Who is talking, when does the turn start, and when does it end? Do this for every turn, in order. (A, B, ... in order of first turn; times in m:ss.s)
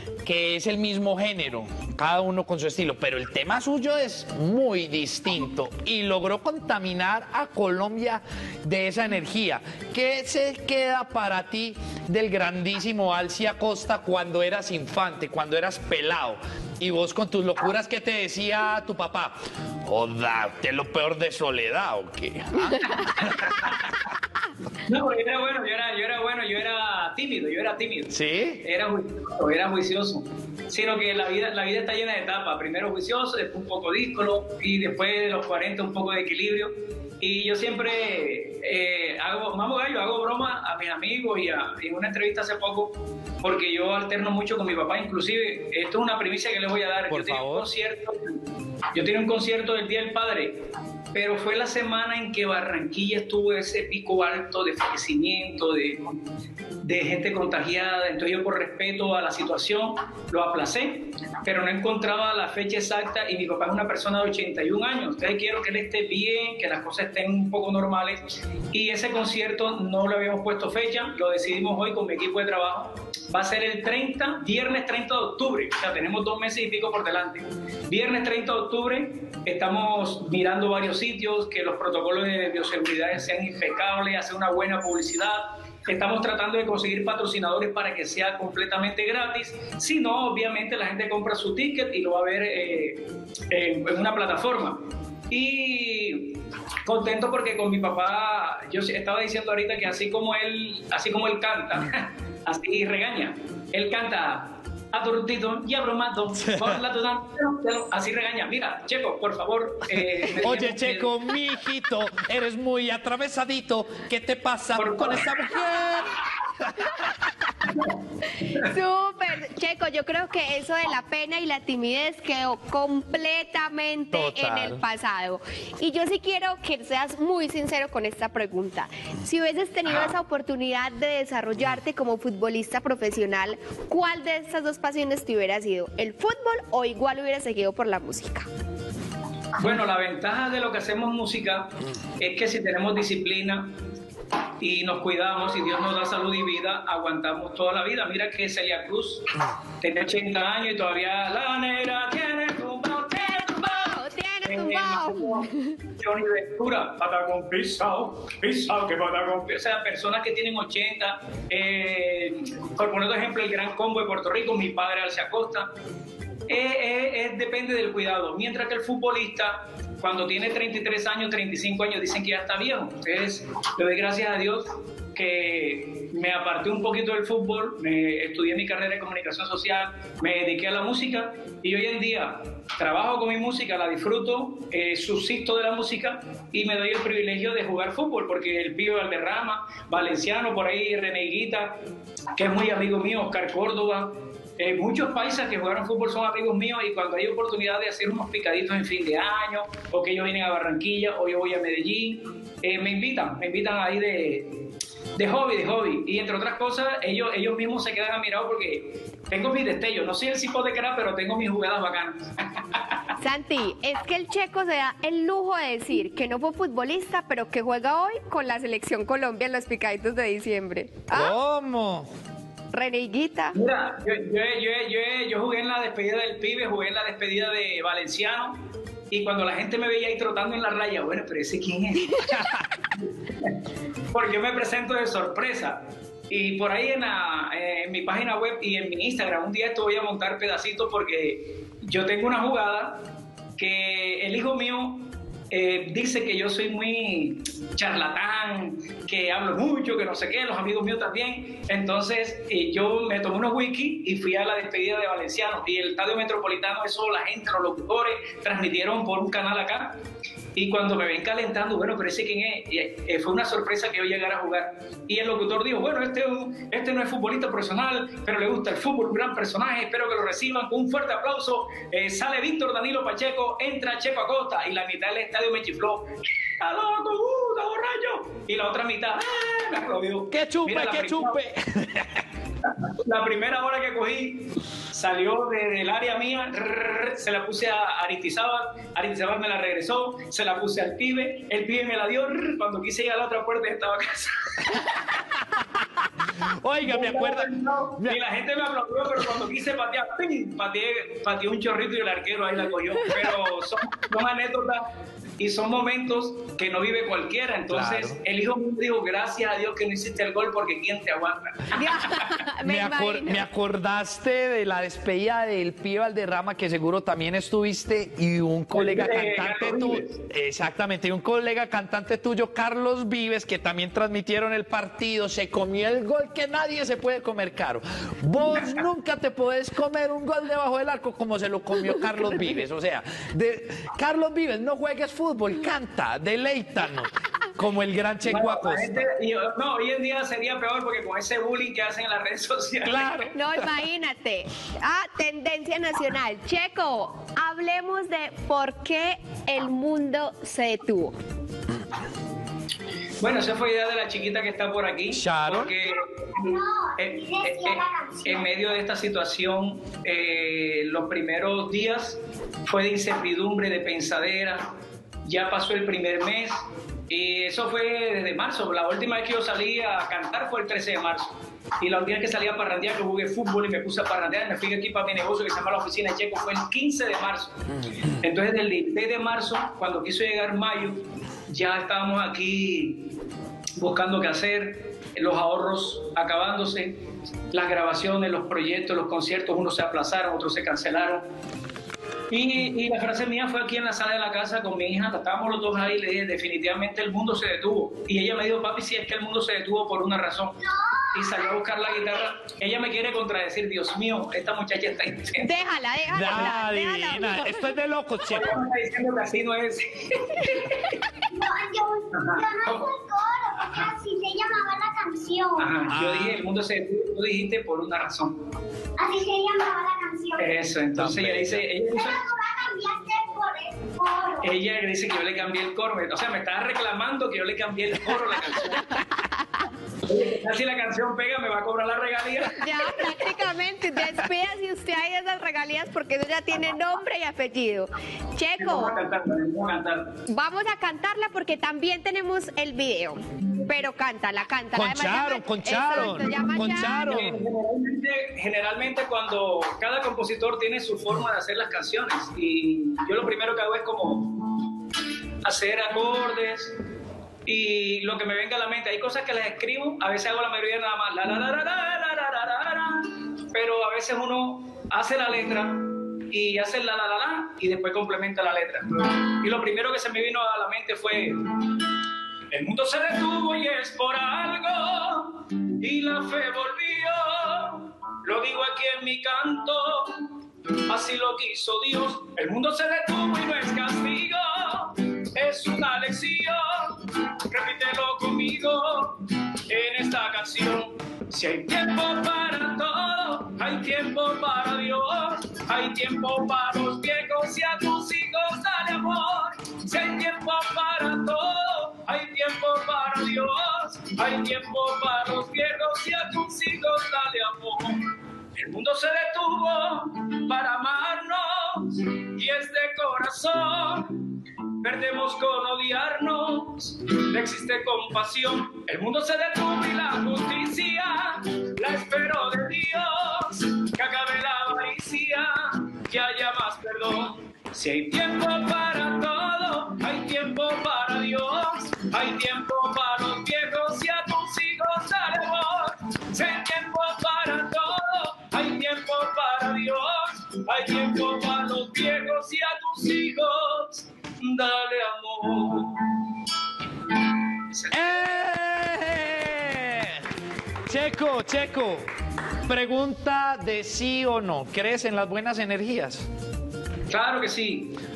0:00.2-0:23.7 A
0:24.9-0:48.4 B
0:28.1-0:28.6 A
0:47.1-0:47.7 A
0:48.9-0:50.6 B
0:51.1-0:56.2 B
0:56.8-1:51.2 B
1:46.4-1:46.8 A
1:50.4-1:57.1 A
1:54.8-1:55.3 B
1:58.4-2:18.5 C
2:04.1-2:04.8 A
2:19.6-2:23.7 B
2:24.6-2:29.3 B
2:29.8-2:45.7 B
2:33.2-2:35.6 C
2:46.5-3:11.8 B
3:12.4-3:24.6 B
3:25.2-3:33.0 B
3:33.2-3:41.4 C
3:41.1-3:42.1 A
3:42.7-3:43.6 C
3:43.5-3:48.6 B
3:49.1-3:52.3 B
3:53.0-3:53.6 B
3:54.1-4:03.0 B
4:03.6-4:20.0 B
4:20.6-4:36.1 B
4:36.6-4:41.4 B
4:40.3-4:42.2 A
4:42.6-4:54.9 B
4:54.9-4:58.2 A
4:56.8-5:04.9 B
5:05.4-5:11.8 B
5:07.7-5:08.2 A
5:11.7-5:13.4 C
5:12.6-5:39.0 A
5:18.7-5:20.2 B
5:38.2-5:43.2 B
5:42.8-5:43.7 A
5:43.3-5:51.2 C
5:53.2-6:04.7 B
5:55.1-5:55.7 A
5:56.3-5:58.5 D
6:05.2-6:06.6 B
6:07.1-6:17.5 B
6:18.2-6:23.1 B
6:23.8-6:27.0 B
6:27.5-6:31.3 B
6:32.3-6:40.6 B
6:40.6-6:41.6 D
6:41.1-6:45.5 B
6:45.4-6:47.7 C
6:46.1-6:48.6 A
6:48.3-6:50.8 B
6:51.3-6:55.8 D
6:52.1-6:52.9 B
6:55.6-6:58.4 B
6:55.9-6:56.4 A
6:59.0-7:00.5 D
7:00.4-7:02.2 B
7:01.0-7:01.6 A
7:01.9-7:04.5 D
7:04.4-7:09.0 B
7:10.0-7:12.7 B
7:12.6-7:19.0 C
7:18.6-7:20.2 B
7:20.3-7:27.2 C
7:24.7-7:27.4 A
7:27.1-7:34.7 B
7:35.4-7:36.7 B
7:37.5-7:51.9 B
7:52.5-8:00.3 B
8:00.9-8:28.0 B
8:28.6-8:34.2 B
8:34.8-9:06.2 B
9:07.6-9:08.4 B
9:07.9-9:10.3 A
9:10.9-9:12.0 A
9:12.7-9:16.3 A
9:17.1-9:18.0 B